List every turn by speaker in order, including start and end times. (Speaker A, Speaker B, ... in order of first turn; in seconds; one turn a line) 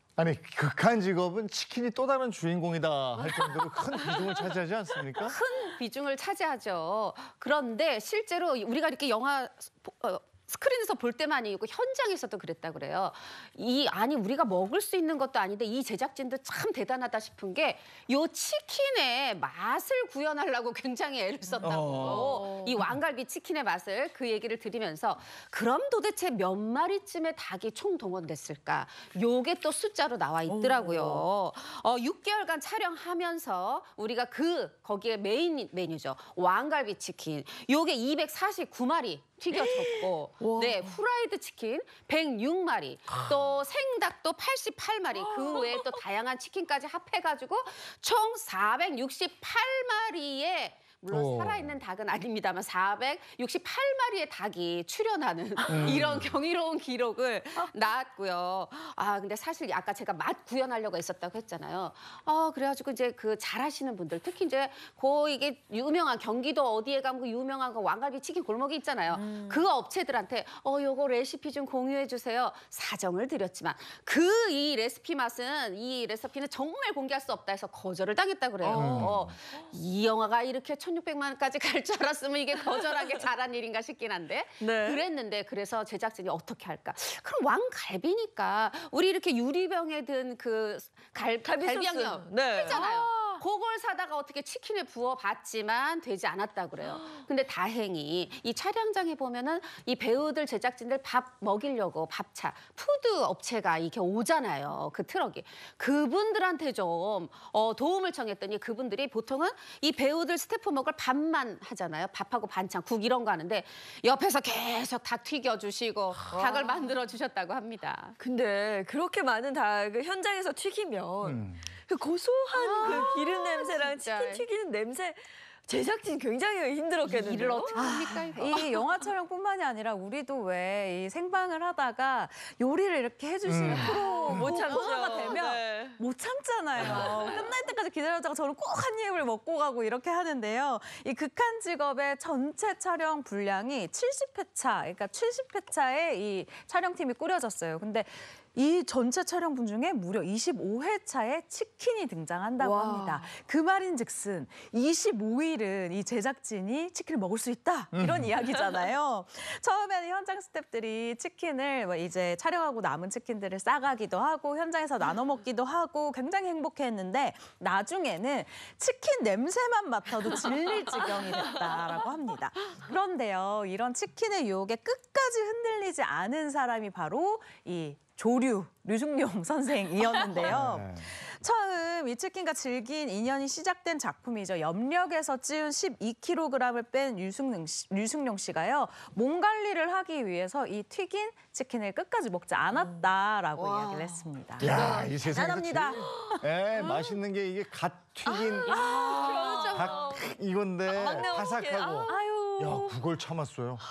Speaker A: 0.2-5.4
Speaker B: 3.9-4.2
Speaker B: 5.1-118.2
Speaker A: 21.6-22.3
Speaker C: 30.5-31.2
Speaker C: 39.5-40.8
Speaker C: 45.4-45.7
Speaker A: 51.1-51.7
Speaker A: 55.7-56.3
Speaker C: 78.6-79.1
Speaker A: 78.7-79.3
Speaker C: 84.6-85.0
Speaker C: 91.4-92.9
Speaker C: 96.8-97.2
Speaker C: 116.3-116.9
Speaker C: 118.2-127.8
Speaker A: 121.2-121.6
Speaker B: 122.5-124.5
Speaker B: 127.0-128.6
Speaker D: 127.7-194.8
Speaker A: 133.4-134.5
Speaker C: 133.7-136.0
Speaker B: 136.8-137.4
Speaker C: 152.6-153.3
Speaker A: 157.9-158.3
Speaker A: 180.4-181.1
Speaker C: 193.6-197.1
Speaker A: 194.6-198.9
Speaker B: 194.7-195.0
Speaker D: 195.3-196.2
Speaker C: 198.3-200.2
Speaker B: 198.7-200.2
Speaker D: 198.7-199.7
Speaker A: 199.7-203.8
Speaker C: 200.9-202.1
Speaker D: 202.1-202.9